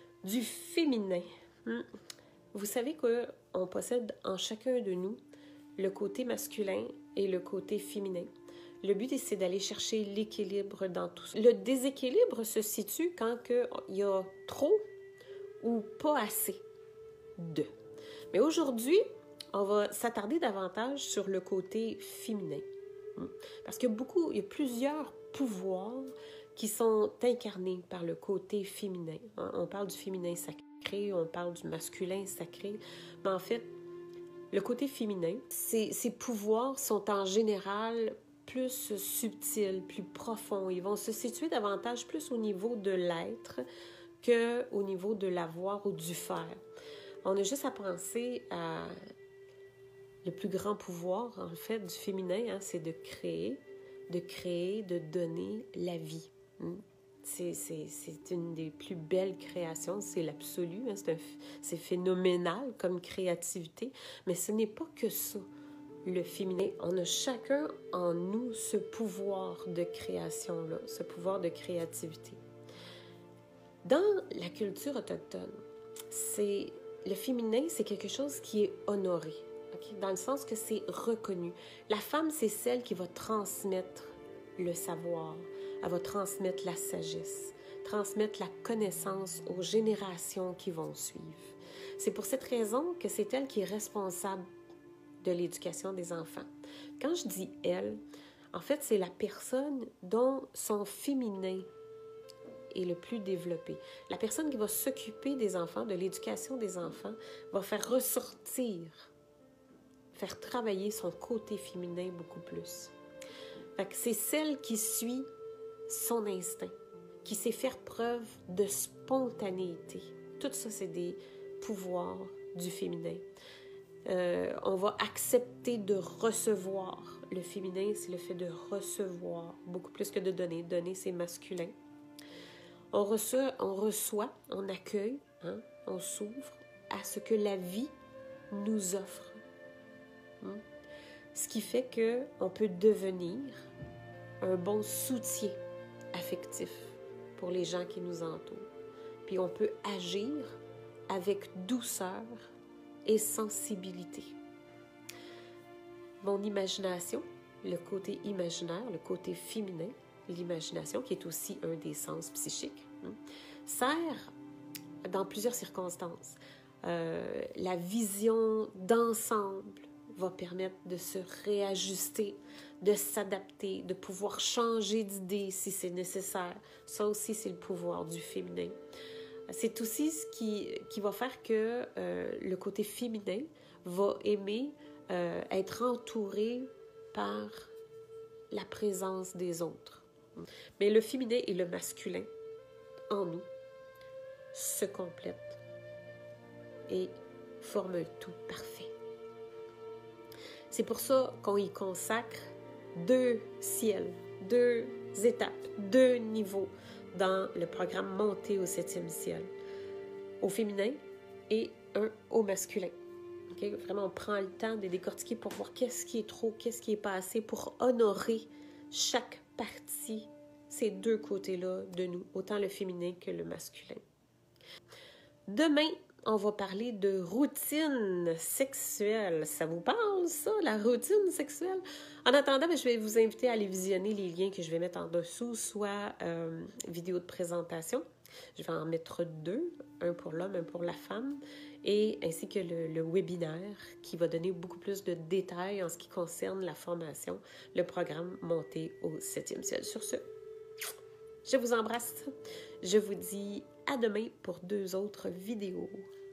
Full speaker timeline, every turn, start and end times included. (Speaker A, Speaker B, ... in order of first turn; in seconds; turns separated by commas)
Speaker A: 0.2-1.9, Speaker A: 2.5-5.2, Speaker A: 5.8-8.3, Speaker A: 8.8-14.8, Speaker A: 15.6-16.6, Speaker A: 17.4-17.7, Speaker A: 18.3-33.7, Speaker A: 34.5-43.6, Speaker A: 44.2-46.6, Speaker A: 47.2-49.0, Speaker A: 50.2-65.5, Speaker A: 66.0-72.4, Speaker A: 73.8-94.4, Speaker A: 95.2-98.0, Speaker A: 98.5-101.7, Speaker A: 102.7-109.1, Speaker A: 110.1-112.9, Speaker A: 113.8-115.3, Speaker A: 115.9-123.3, Speaker A: 124.1-131.8, Speaker A: 132.9-137.9, Speaker A: 138.5-139.4, Speaker A: 141.3-143.7, Speaker A: 144.4-145.6, Speaker A: 146.1-148.7, Speaker A: 149.2-152.5, Speaker A: 153.1-154.3, Speaker A: 156.2-164.3, Speaker A: 165.0-178.8, Speaker A: 179.5-187.7, Speaker A: 188.5-190.1, Speaker A: 190.8-192.3, Speaker A: 193.1-193.5, Speaker A: 194.5-195.6, Speaker A: 196.9-198.9, Speaker A: 200.7-209.5, Speaker A: 210.4-213.0, Speaker A: 213.5-224.0, Speaker A: 225.5-250.2, Speaker A: 251.4-252.3, Speaker A: 252.8-256.1